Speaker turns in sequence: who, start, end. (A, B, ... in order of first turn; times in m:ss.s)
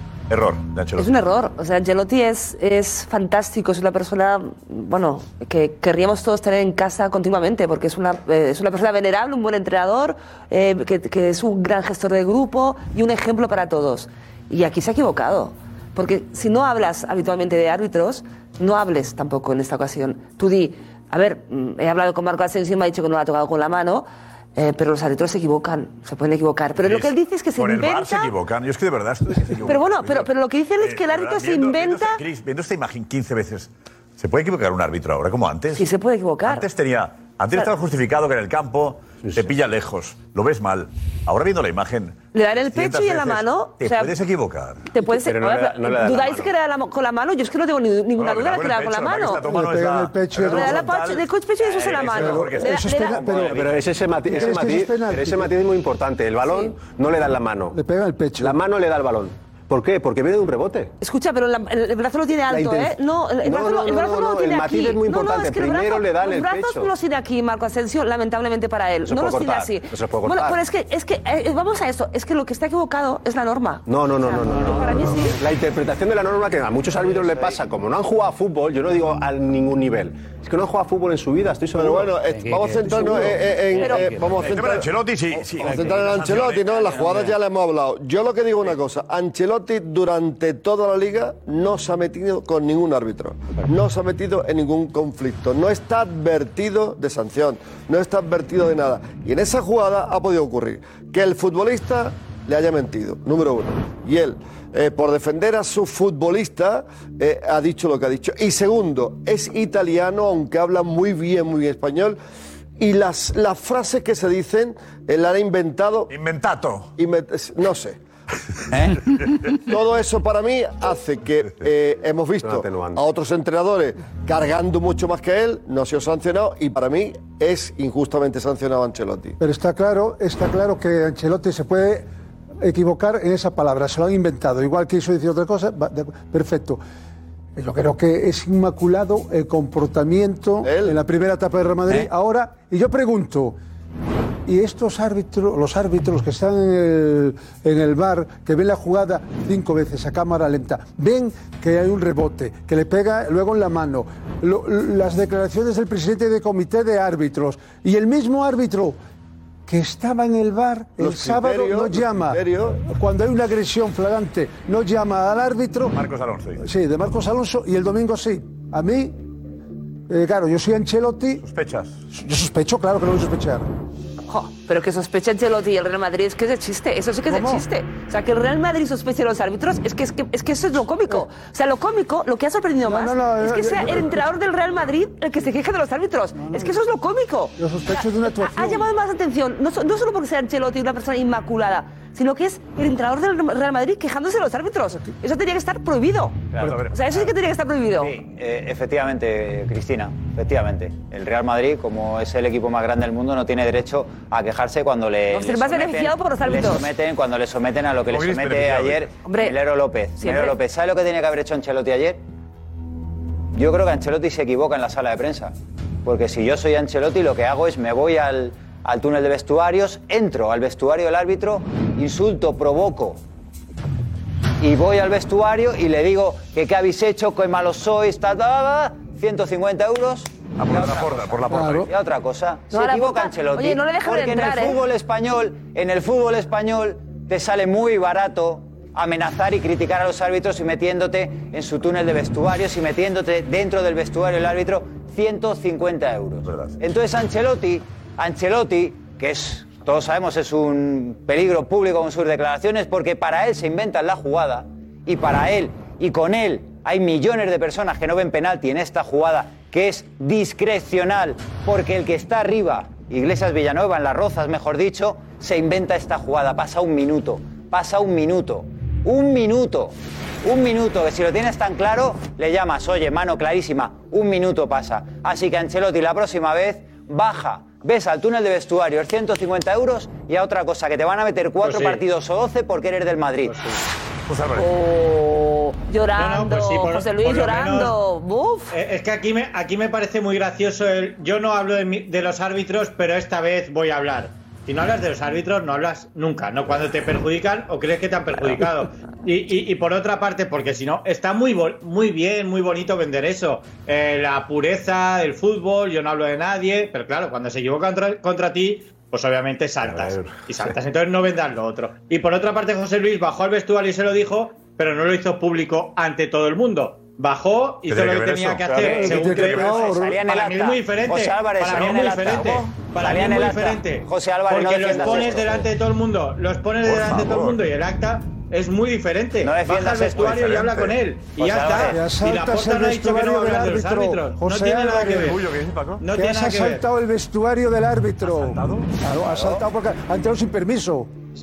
0:00.3-0:01.1 A
0:01.0-0:28.3 B
0:26.8-0:35.9 A
0:29.6-0:32.2 B
0:35.7-0:36.7 B
0:36.4-0:44.9 A
0:39.2-0:39.5 C
0:42.3-0:44.1 B
0:44.9-0:49.4 B
0:45.0-0:46.5 C
0:48.2-0:53.8 A
0:49.4-0:50.8 D
0:50.4-0:53.2 B
0:52.1-0:53.7 D
0:53.4-0:57.7 C
0:54.2-0:55.5 D
0:56.4-0:56.7 B
0:57.7-0:58.6 D
0:58.4-1:00.9 C
1:01.0-1:15.4 B
1:02.5-1:06.9 C
1:09.0-1:10.6 C
1:13.8-1:22.2 C
1:21.7-1:24.9 E
1:23.7-1:24.1 B
1:24.4-1:27.0 A
1:25.6-1:52.2 E
1:52.8-1:56.1 E
1:56.1-1:56.9 A
1:57.0-1:58.0 E
1:59.5-2:09.4 E
2:02.4-2:03.0 C
2:09.4-2:12.1 D
2:12.6-2:16.8 D
2:17.6-2:23.6 D
2:20.6-2:21.0 E
2:24.4-2:39.0 D
2:39.7-2:46.0 D
2:41.0-2:42.8 E
2:45.9-2:46.6 A
2:46.6-2:49.2 D
2:50.1-2:51.4 D
2:51.4-2:52.0 A
2:52.1-2:53.7 D
2:54.3-3:07.6 B
2:57.3-2:57.6 D
3:02.8-3:04.3 D
3:06.4-3:06.8 D
3:07.6-3:08.9 D
3:08.3-3:18.1 B
3:16.6-3:17.3 A
3:18.0-3:32.2 F
3:25.3-3:26.9 B
3:28.1-3:29.1 A
3:29.2-3:29.5 B
3:30.2-3:30.6 B
3:33.5-3:35.5 F
3:36.0-3:43.2 F
3:44.6-4:43.6 F
3:50.6-3:51.9 A
3:51.5-3:51.9 D
3:52.7-3:54.8 B
4:06.4-4:06.8 A
4:41.6-4:42.0 G
4:43.4-4:43.8 G
4:44.3-4:44.7 A
4:44.6-4:48.8 B
4:46.2-4:47.9 G
4:48.7-5:35.4 G
5:09.8-5:10.7 A
5:17.8-5:19.8 A
5:18.7-5:20.2 D
5:19.3-5:25.7 F
5:26.8-5:27.6 A
5:29.4-5:30.4 F
5:30.1-5:31.0 A
5:31.4-5:32.0 F
5:31.9-5:35.3 D
5:35.2-5:36.0 A
5:36.0-5:36.8 G
5:36.1-5:41.1 D
5:38.2-5:38.9 A
5:39.3-5:39.6 F